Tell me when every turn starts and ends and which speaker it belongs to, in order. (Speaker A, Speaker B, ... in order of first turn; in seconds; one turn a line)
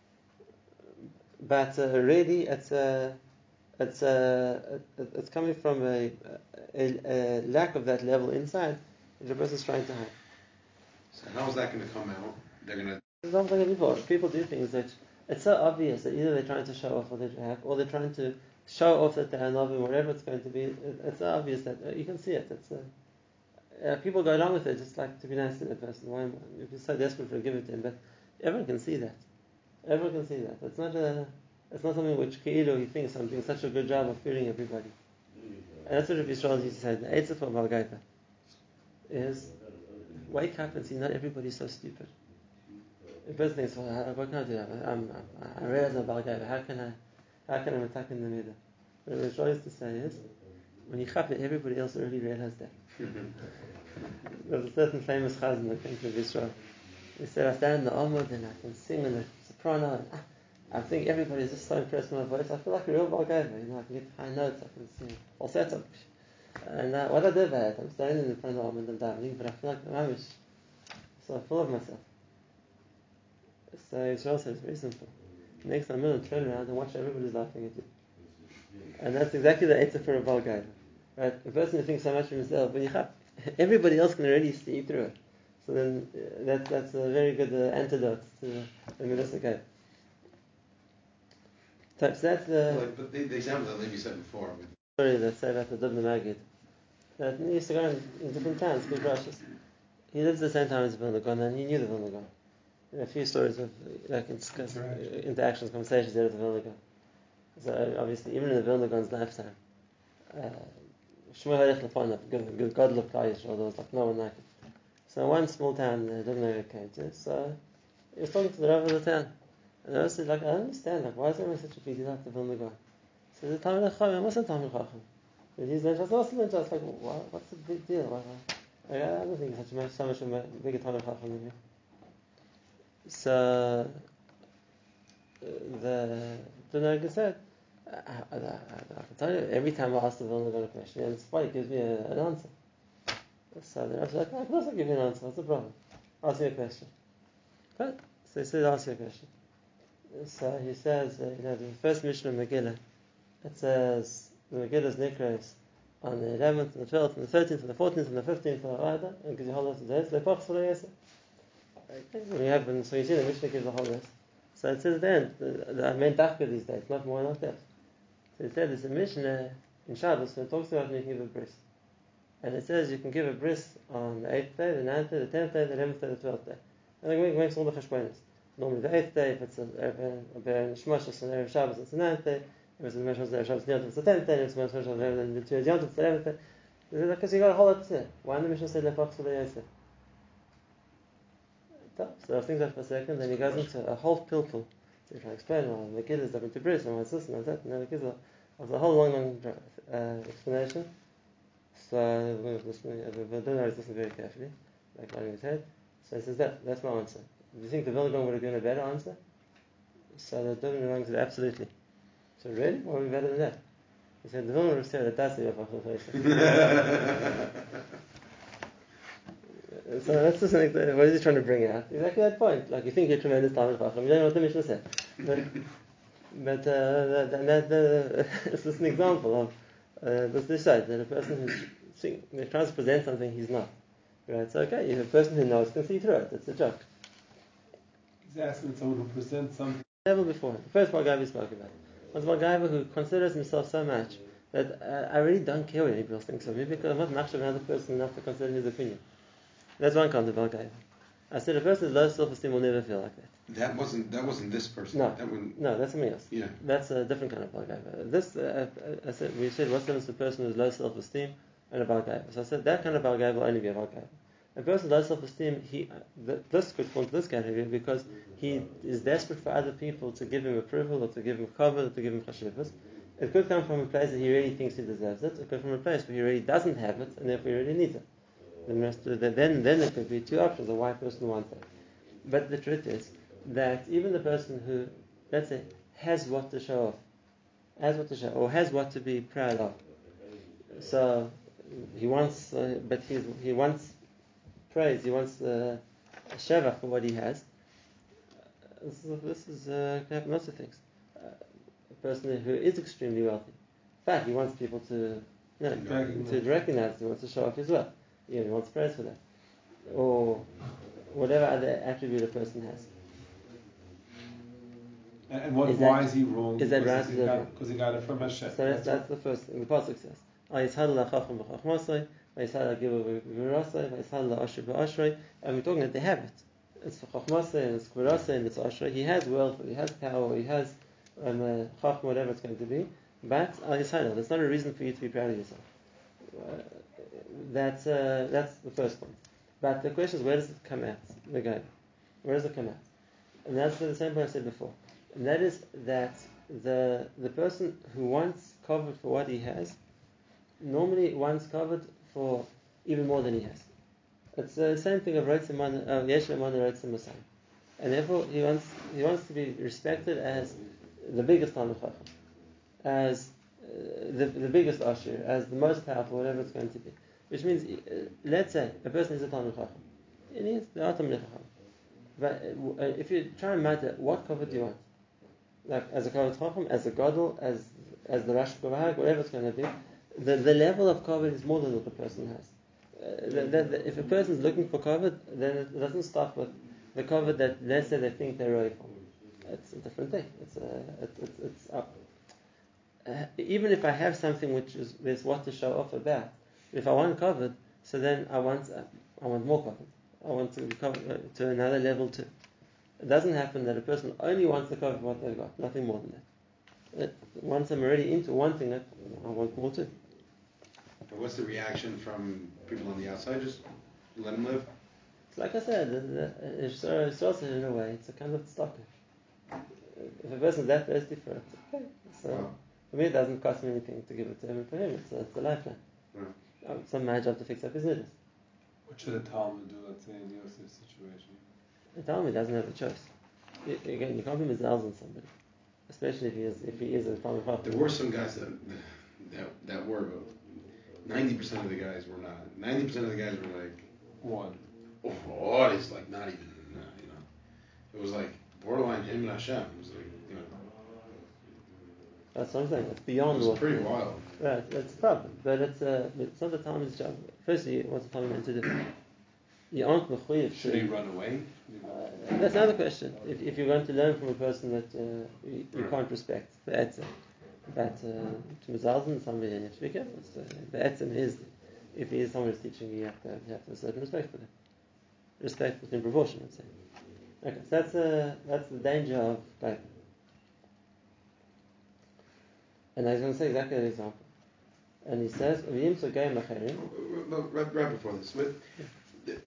Speaker A: 1.4-3.2
Speaker A: 3.8-10.1
Speaker B: 11.1-13.0
Speaker A: 13.2-22.9
Speaker A: 23.8-29.2
Speaker A: 29.8-34.9
Speaker A: 35.9-38.0
Speaker A: 39.1-39.5
Speaker A: 40.2-42.1
Speaker A: 43.2-50.2
Speaker A: 50.9-52.7
Speaker A: 54.3-56.5
Speaker A: 57.2-66.1
Speaker A: 66.6-70.4
Speaker A: 71.2-72.0
Speaker A: 73.7-77.9
Speaker A: 79.0-89.6
Speaker A: 92.0-92.9
Speaker B: 92.7-94.7
Speaker A: 95.0-96.5
Speaker A: 97.2-99.4
Speaker A: 100.1-102.3
Speaker A: 102.9-106.8
Speaker C: 104.6-105.0
Speaker A: 107.6-109.6
Speaker A: 110.3-110.8
Speaker A: 111.3-114.5
Speaker A: 115.1-117.6
Speaker A: 118.1-122.8
Speaker A: 123.3-125.1
Speaker A: 125.6-131.6
Speaker A: 133.1-134.0
Speaker A: 135.4-142.5
Speaker A: 143.6-146.9
Speaker A: 147.8-149.3
Speaker A: 150.1-152.8
Speaker A: 153.4-160.9
Speaker A: 161.9-167.7
Speaker A: 168.4-171.6
Speaker A: 172.4-186.4
Speaker A: 186.9-189.7
Speaker A: 191.9-200.9
Speaker A: 201.7-209.2
Speaker A: 210.1-211.7
Speaker A: 212.4-213.6
Speaker A: 214.2-217.3
Speaker A: 219.7-225.6
Speaker A: 226.3-233.7
Speaker A: 234.3-236.8
Speaker C: 238.2-239.8
Speaker A: 240.1-249.0
Speaker A: 249.8-253.3
Speaker B: 253.5-255.6
Speaker A: 254.9-278.0
Speaker B: 256.3-256.6
Speaker A: 278.7-281.6
Speaker A: 282.2-287.0
Speaker A: 287.8-289.8
Speaker A: 290.7-294.0
Speaker A: 294.7-297.5
Speaker A: 298.8-301.4
Speaker A: 301.9-309.2
Speaker B: 305.7-306.0
Speaker C: 305.8-306.5
Speaker A: 309.9-310.5
Speaker A: 311.1-312.9
Speaker C: 315.3-319.0
Speaker A: 315.6-317.5
Speaker A: 318.5-335.6
Speaker A: 336.2-341.7
Speaker A: 342.2-342.9
Speaker A: 343.4-349.8
Speaker A: 350.6-353.7
Speaker A: 354.4-357.2
Speaker A: 357.8-362.1
Speaker A: 362.8-371.5
Speaker A: 372.2-374.8
Speaker A: 375.6-391.9
Speaker A: 393.1-402.3
Speaker A: 403.0-406.2
Speaker A: 406.9-409.9
Speaker B: 411.1-413.6
Speaker B: 414.1-414.7
Speaker A: 415.3-418.9
Speaker A: 419.9-425.8
Speaker B: 422.3-422.5
Speaker A: 426.6-428.1
Speaker C: 428.9-431.4
Speaker A: 432.0-433.1
Speaker A: 433.6-435.3
Speaker A: 435.9-437.9
Speaker B: 437.6-440.3
Speaker B: 441.0-443.9
Speaker C: 444.2-444.6
Speaker B: 445.0-447.2
Speaker B: 447.9-450.6
Speaker A: 452.4-458.9
Speaker B: 453.3-454.2
Speaker A: 459.7-461.0
Speaker B: 460.5-461.6
Speaker C: 461.7-462.0
Speaker A: 461.9-467.1
Speaker A: 467.7-474.5
Speaker A: 475.4-476.7
Speaker A: 477.4-479.9
Speaker A: 482.9-484.3
Speaker A: 485.0-486.8
Speaker B: 486.8-488.7